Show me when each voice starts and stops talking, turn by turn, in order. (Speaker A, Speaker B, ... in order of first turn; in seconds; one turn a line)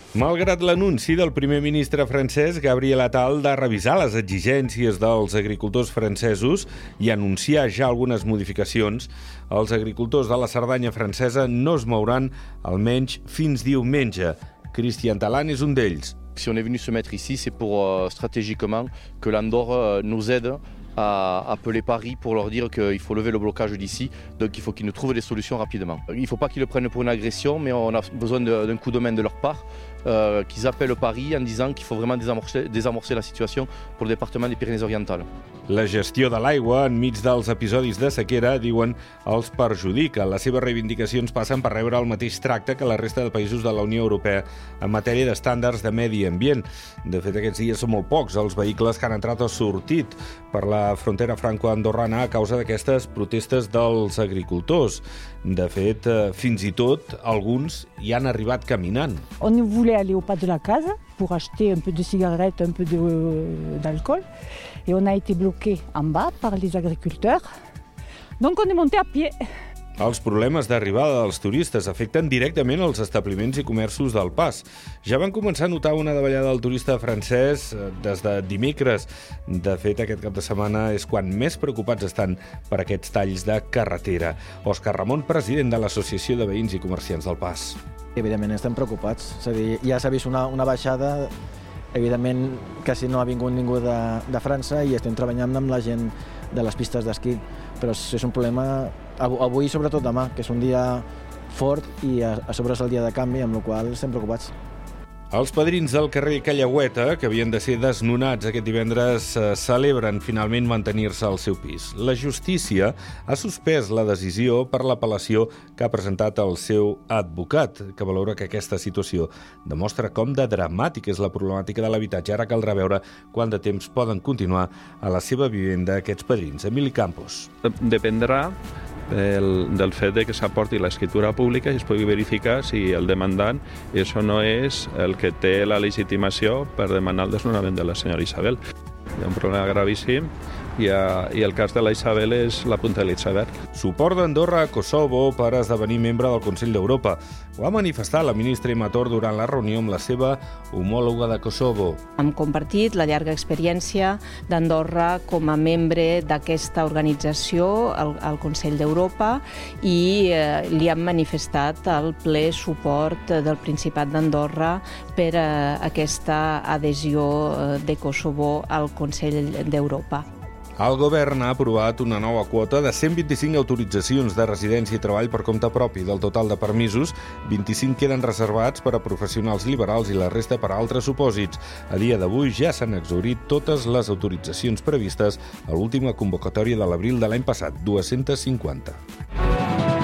Speaker A: 0.1-16.2
Speaker B: 16.4-35.3
Speaker A: 35.7-59.2
Speaker C: 59.4-64.2
Speaker C: 64.9-67.5
Speaker C: 68.4-69.4
Speaker A: 70.0-87.8
Speaker D: 88.2-91.3
Speaker D: 91.9-104.5
Speaker A: 105.3-127.5
Speaker E: 127.7-128.6
Speaker E: 129.1-138.6
Speaker E: 139.2-143.6
Speaker A: 143.7-152.0
Speaker F: 152.2-170.3
Speaker A: 170.8-189.0